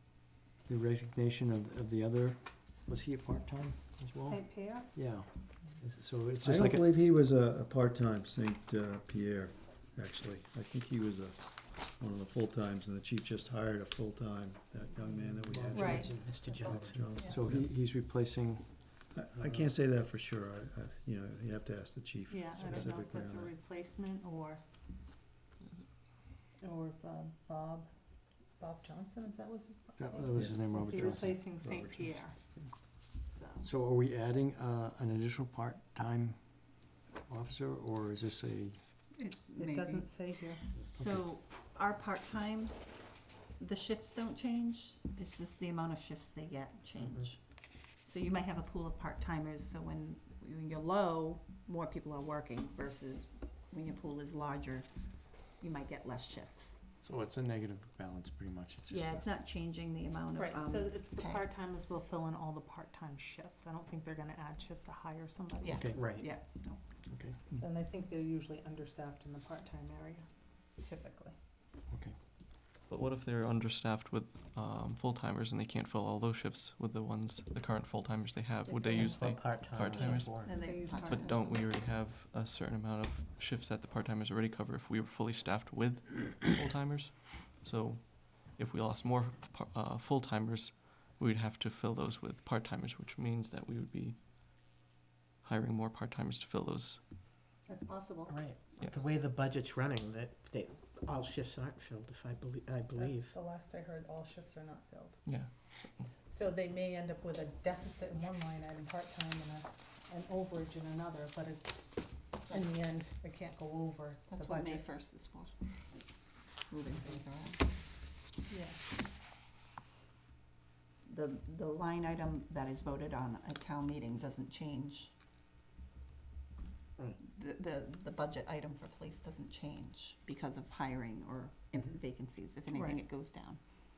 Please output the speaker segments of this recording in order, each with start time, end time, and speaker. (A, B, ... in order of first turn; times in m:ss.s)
0:00.6-0:06.9 A
0:04.2-0:04.9 B
0:06.4-0:17.7 C
0:15.1-0:16.2 A
0:15.5-0:17.2 D
0:15.7-0:17.4 B
0:17.2-0:19.7 A
0:19.1-0:23.5 C
0:22.3-0:24.6 B
0:26.6-0:27.9 B
0:28.6-0:32.4 B
0:30.0-0:31.5 A
0:31.4-0:32.7 C
0:33.2-0:33.7 B
0:33.6-0:36.6 A
0:37.2-0:38.8 A
0:39.1-0:40.1 E
0:39.6-0:40.6 B
0:40.8-0:42.8 E
0:41.0-0:41.2 A
0:43.6-0:47.4 E
0:47.9-0:54.9 E
0:55.6-0:56.8 E
0:57.0-0:59.4 A
0:58.9-1:01.4 E
1:00.3-1:05.9 B
1:05.6-1:06.8 E
1:05.7-1:06.0 A
1:06.0-1:06.3 D
1:07.1-1:07.5 A
1:07.5-1:10.3 B
1:10.8-1:11.4 B
1:11.9-1:12.2 A
1:12.9-1:34.2 F
1:18.6-1:19.2 E
1:19.0-1:20.6 D
1:19.9-1:21.7 E
1:20.4-1:21.3 B
1:35.4-1:37.0 F
1:37.7-1:38.4 B
1:38.2-1:43.3 D
1:43.0-1:45.3 B
1:45.2-1:46.1 F
1:46.2-1:54.8 B
1:54.3-1:55.5 E
1:56.7-1:57.6 E
1:58.5-1:58.8 B
2:01.0-2:05.1 E
2:07.2-2:13.6 E
2:12.7-2:13.0 B